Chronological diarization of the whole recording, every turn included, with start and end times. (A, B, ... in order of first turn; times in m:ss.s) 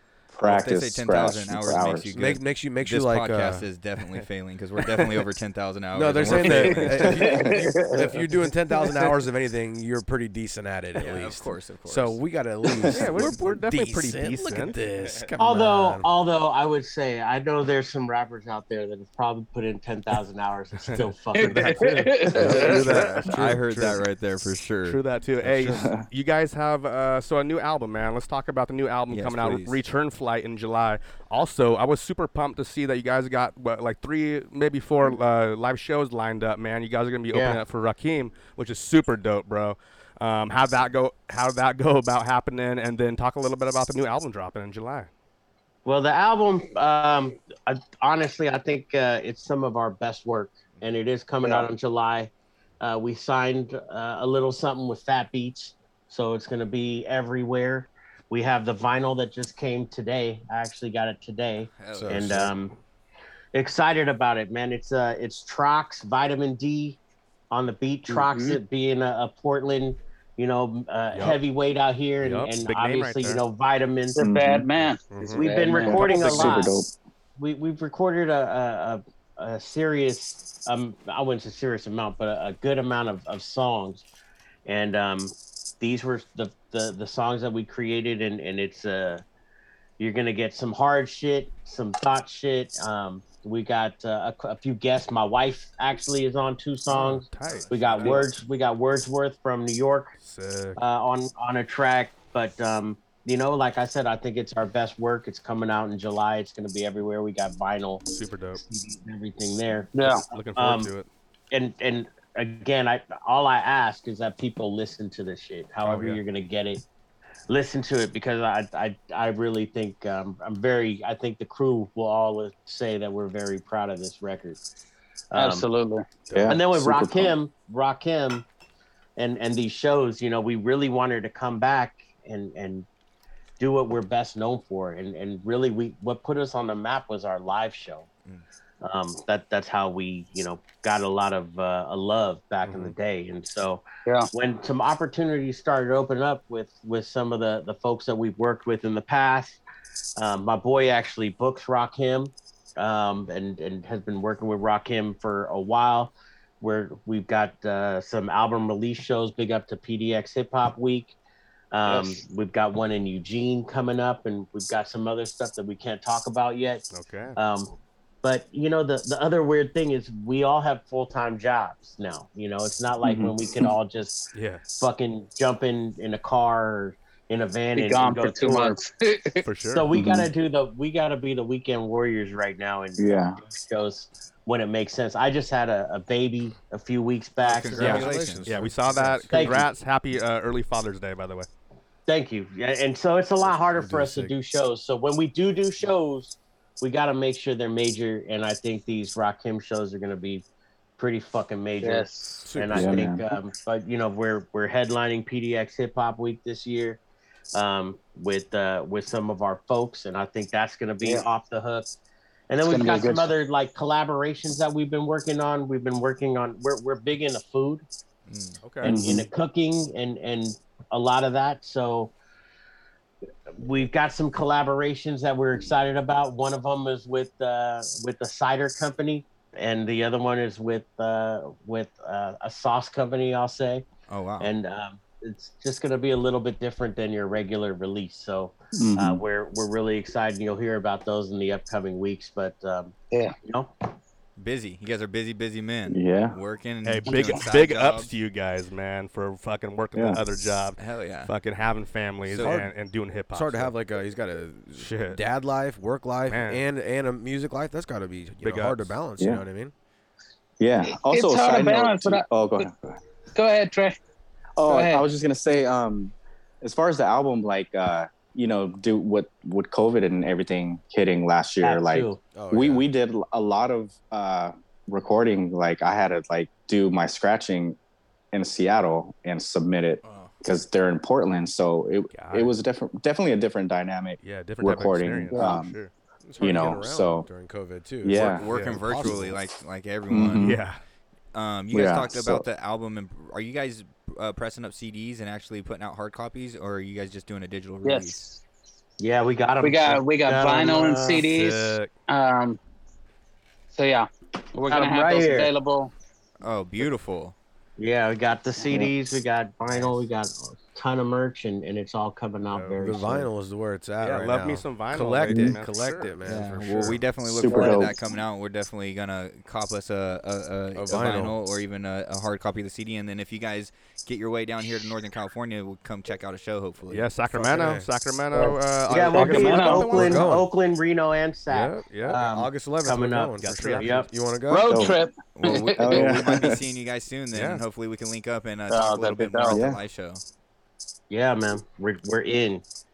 0:00.3-0:02.1 A
0:00.4-0:07.2 B
0:02.1-0:03.7 C
0:04.8-0:05.1 D
0:05.9-0:16.1 C
0:06.2-0:06.7 D
0:07.2-0:08.1 E
0:11.0-0:12.2 B
0:12.9-0:15.2 D
0:15.4-0:21.9 F
0:20.9-0:23.5 D
0:21.3-0:22.8 E
0:21.8-0:24.0 C
0:22.4-0:25.0 B
0:24.8-0:45.1 D
0:25.5-0:26.1 A
0:29.1-0:29.8 B
0:37.3-0:37.6 F
0:45.8-1:02.8 F
0:51.4-0:51.7 E
1:01.8-1:02.2 B
1:01.9-1:02.5 C
1:03.5-1:07.0 F
1:07.5-1:14.2 F
1:08.1-1:08.6 E
1:11.1-1:11.4 D
1:12.2-1:13.4 D
1:14.2-1:16.4 E
1:14.2-1:14.7 A
1:15.1-1:16.7 D
1:15.3-1:16.8 F
1:15.9-1:16.9 A
1:17.4-1:24.0 F
1:24.7-1:29.2 F
1:30.0-1:40.1 F
1:36.9-1:38.3 D
1:37.4-1:38.2 B
1:40.2-1:40.8 D
1:40.8-1:48.0 F
1:48.1-1:48.6 D
1:48.6-1:50.9 F
1:50.0-1:50.3 E
1:50.3-1:51.1 D
1:51.5-1:56.8 F
1:55.8-1:56.2 D
1:57.5-2:04.6 F
2:05.3-2:05.7 F
2:05.4-2:06.1 E
2:06.3-2:06.6 D
2:06.3-2:07.3 A
2:06.5-2:08.4 F
2:09.2-2:12.9 F
2:13.6-2:18.1 F
2:18.8-2:29.6 F
2:22.6-2:23.0 D
2:30.2-2:41.2 F
2:41.7-2:46.8 F
2:46.9-2:47.4 D
2:47.4-2:58.8 F
2:53.0-2:53.7 A
2:54.3-2:54.6 D
2:57.7-2:59.4 E
2:59.4-2:59.9 D
2:59.7-3:08.0 F
2:59.9-3:00.3 A
3:03.0-3:03.4 A
3:07.4-3:08.5 B
3:07.5-3:09.7 C
3:08.4-3:11.5 D
3:09.3-3:09.7 F
3:12.1-3:20.4 F
3:13.4-3:14.4 D
3:21.0-3:27.0 F
3:21.8-3:22.4 E
3:22.4-3:23.1 C
3:22.7-3:23.2 A
3:27.5-3:31.9 F
3:32.5-3:37.8 F
3:32.6-3:33.3 E
3:38.3-3:38.6 B
3:38.6-3:39.0 D
3:38.8-3:42.1 F
3:38.8-3:39.3 A
3:43.6-3:53.9 F
3:54.1-3:54.5 B
3:54.4-4:03.7 F
3:58.8-3:59.2 A
4:04.4-4:08.1 B
4:05.9-4:06.4 A
4:06.8-4:13.8 D
4:10.0-4:10.2 A
4:10.8-4:11.3 B
4:12.3-4:12.6 B
4:12.4-4:12.7 C
4:13.3-4:19.7 C
4:14.8-4:15.2 D
4:16.3-4:16.6 D
4:18.4-4:19.0 D
4:19.2-4:19.4 A
4:20.6-4:23.0 A
4:20.9-4:22.7 E
4:23.4-4:24.0 E
4:24.6-4:37.8 A
4:24.6-4:25.1 E
4:31.6-4:32.2 F
4:32.3-4:32.8 C
4:38.3-4:45.8 A
4:42.1-4:42.5 D
4:44.2-4:46.7 D
4:45.3-4:45.6 E
4:46.2-4:49.4 C
4:46.4-4:47.3 A
4:48.0-4:48.4 A
4:48.1-4:50.6 B
4:48.3-4:48.8 D
4:50.1-4:50.6 A
4:50.3-4:50.8 D
4:51.3-4:58.2 B
4:51.7-4:52.4 A
4:57.8-4:58.4 E
4:59.0-5:01.3 F
4:59.6-5:02.6 E
5:01.2-5:01.9 D
5:03.7-5:05.9 E
5:04.7-5:05.5 F
5:06.4-5:07.4 B
5:07.8-5:13.3 F
5:12.4-5:12.8 D
5:12.8-5:17.0 C
5:14.0-5:16.1 D
5:16.2-5:27.1 B
5:17.3-5:18.0 A
5:17.5-5:17.9 E
5:20.7-5:21.3 C
5:26.9-5:30.3 D
5:27.3-5:27.8 C
5:28.9-5:34.1 F
5:29.1-5:30.1 E
5:30.0-5:30.5 C
5:31.5-5:32.2 D
5:32.2-5:34.8 C
5:33.4-5:34.1 D
5:34.5-5:36.2 E
5:34.7-5:35.0 A
5:35.4-5:40.2 B
5:35.8-5:36.6 A
5:37.3-5:37.6 D
5:38.7-5:39.6 E
5:39.5-5:39.8 A
5:41.1-5:42.6 F